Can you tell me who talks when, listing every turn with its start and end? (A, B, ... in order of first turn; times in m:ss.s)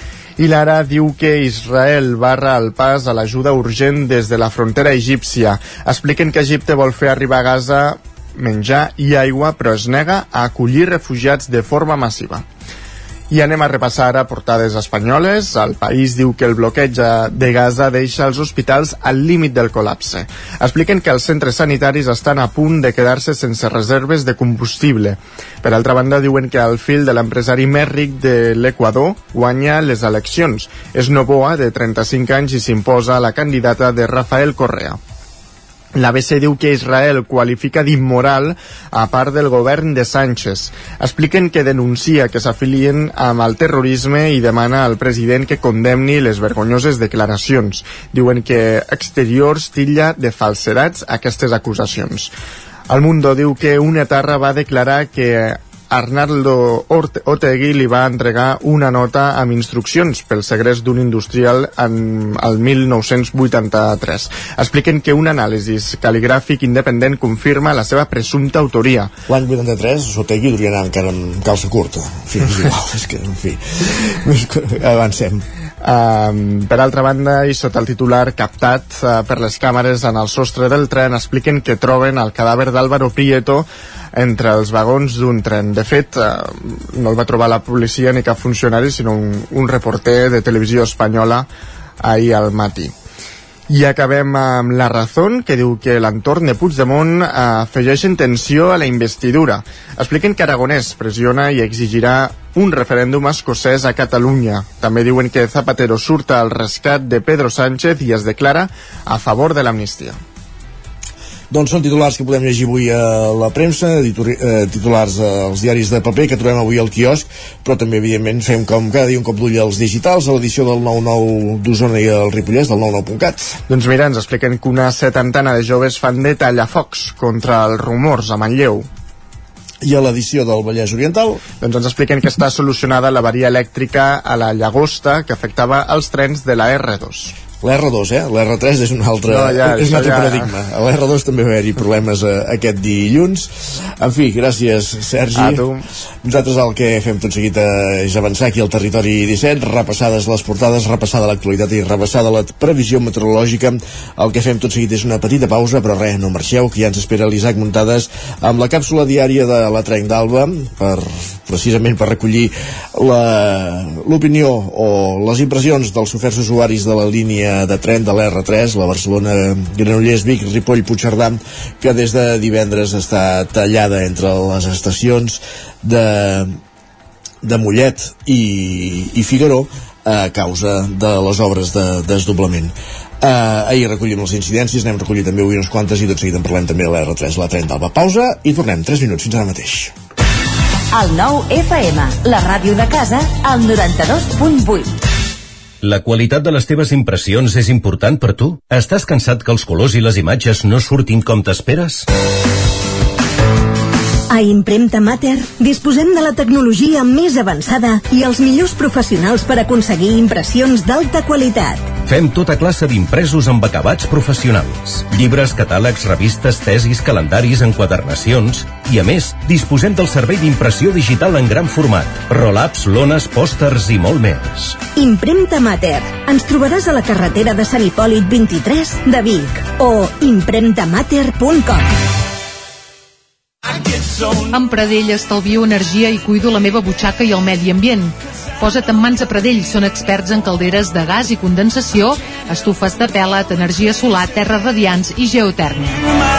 0:00.4-0:12.4 A
0:13.3-0:35.0 A
0:35.9-0:52.3 A
0:52.9-1:09.1 A
1:09.3-1:15.4 B
1:15.8-1:31.5 A
1:32.0-1:32.9 A
1:33.7-1:50.2 A
1:51.5-2:03.6 B
2:03.7-2:08.9 A
2:09.8-2:11.4 B
2:11.6-2:17.3 A
2:17.6-2:25.6 B
2:19.3-2:20.5 A
2:25.3-2:25.8 A
2:26.2-2:56.6 B
2:57.4-3:09.9 B
3:10.9-3:14.9 C
3:15.8-3:22.1 D
3:24.3-3:31.9 E
3:32.0-3:44.8 D
3:44.9-3:51.9 E
3:54.4-4:06.1 F